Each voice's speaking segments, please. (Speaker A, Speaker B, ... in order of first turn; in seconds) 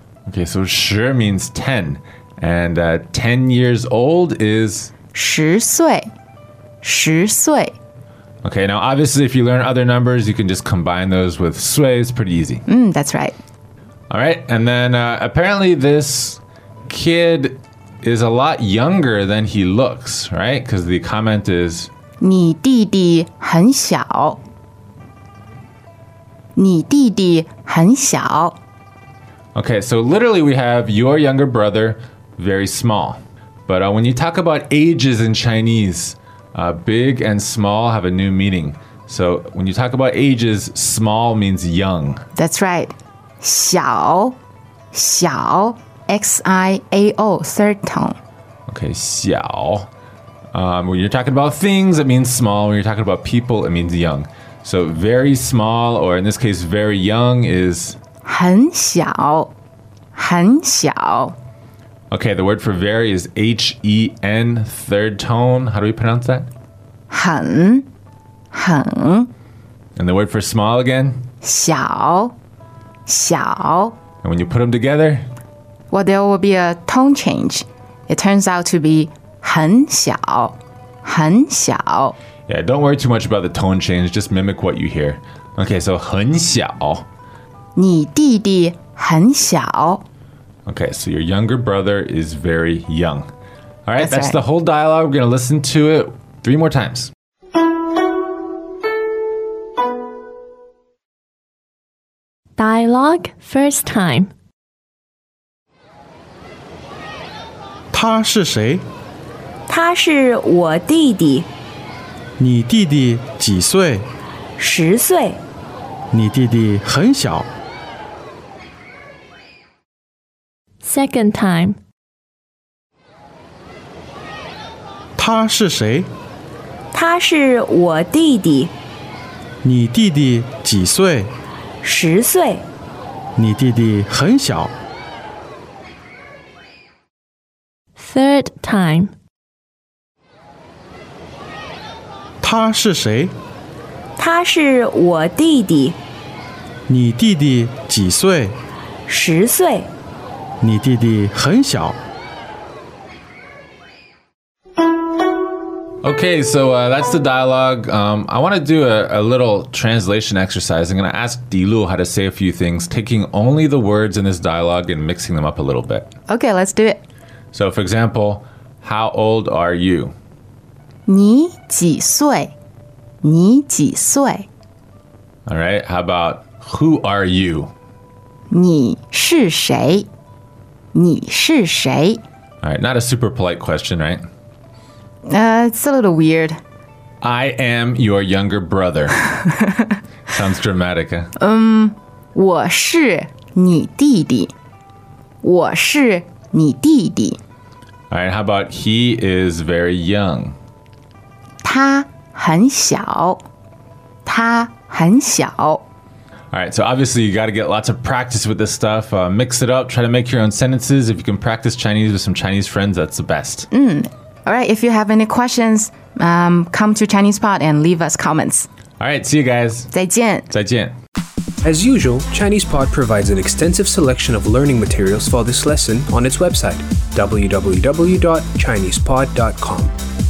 Speaker A: 0.3-4.9, 8.4-12.6, 14.1-21.9, 29.5-42.2, 48.7-49.9, 50.5-58.0, 62.1-66.5, 70.0-71.2, 74.2-75.3, 82.5-87.1, 90.7-93.3, 93.9-97.1, 156.0-166.1, 167.5-170.1, 175.5-177.7, 182.6-184.2, 187.2-189.4, 190.3-191.3, 198.1-200.6, 206.5-213.7, 219.0-219.9, 220.5-220.9
Speaker B: 5.1-6.1, 6.8-7.8, 12.7-13.4, 22.2-24.4, 26.6-28.6, 42.4-44.4, 44.9-48.2, 58.2-59.5, 60.1-61.4, 67.1-67.9, 68.5-69.3, 71.4-72.3, 73.0-74.0, 75.9-82.2, 87.8-90.0, 94.0-94.4, 166.3-167.0, 171.1-172.5, 173.2-174.5, 178.5-180.1, 180.9-182.2, 185.2-186.6, 191.4-194.5, 195.4-197.4, 201.6-203.4, 204.2-205.8, 213.7-218.7, 219.9-220.5
Speaker C: 102.6-104.3, 120.8-121.8, 137.9-139.1
Speaker D: 107.9-108.8, 112.4-114.1, 116.1-117.5, 125.2-126.1, 129.6-131.3, 133.3-134.8, 142.4-143.3, 146.9-148.6, 150.6-152.0
Speaker E: 109.7-111.5, 114.6-115.4, 126.9-128.7, 131.8-132.7, 144.2-146.0, 149.1-149.9
Speaker F: 221.7-229.9